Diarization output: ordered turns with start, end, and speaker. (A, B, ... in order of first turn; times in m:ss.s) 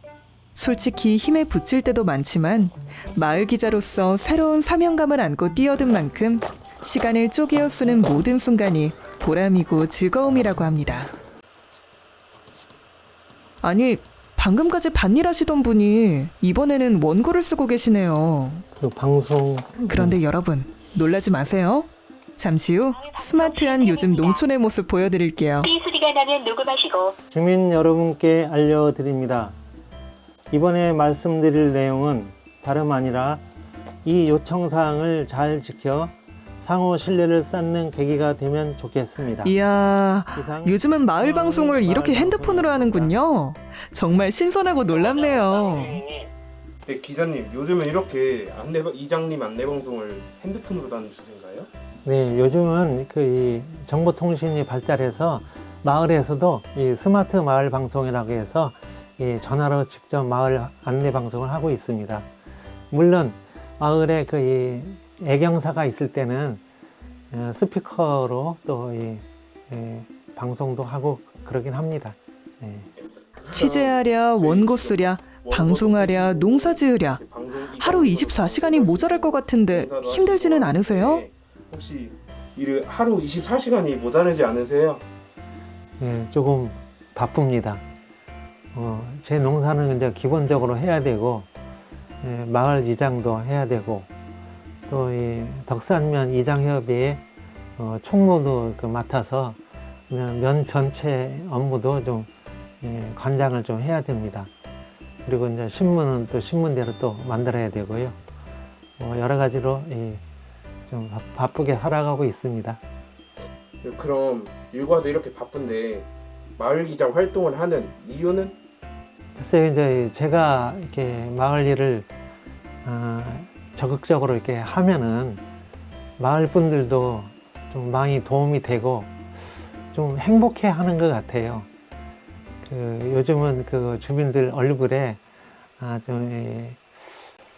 0:00.5-0:11.1 A
0:13.6-0:18.6 A
0:18.8-0:20.2 B
0:19.9-0:25.7 A
0:22.9-0:24.5 C
0:25.6-0:27.2 C
0:27.3-0:29.6 B
0:30.5-0:33.4 B
0:34.0-0:39.6 B
0:39.4-0:46.0 A
0:40.3-0:43.1 B
0:45.0-0:46.1 C
0:46.9-0:51.7 D
0:52.0-1:02.3 B
1:02.9-1:06.6 B
1:07.3-1:12.9 B
1:13.4-1:25.0 D
1:13.5-1:17.2 A
1:17.8-1:21.2 A
1:26.0-1:27.8 B
1:28.7-1:31.5 B
1:32.2-1:34.1 B
1:34.9-1:37.2 B
1:37.8-1:39.6 B
1:40.1-1:42.3 B
1:42.8-1:44.5 B
1:45.2-1:48.2 B
1:49.0-1:50.2 B
1:50.9-1:52.8 B
1:53.8-1:58.5 D
1:59.4-2:02.1 B
2:02.8-2:05.4 B
2:06.2-2:11.7 B
2:12.6-2:15.2 B
2:15.8-2:17.3 B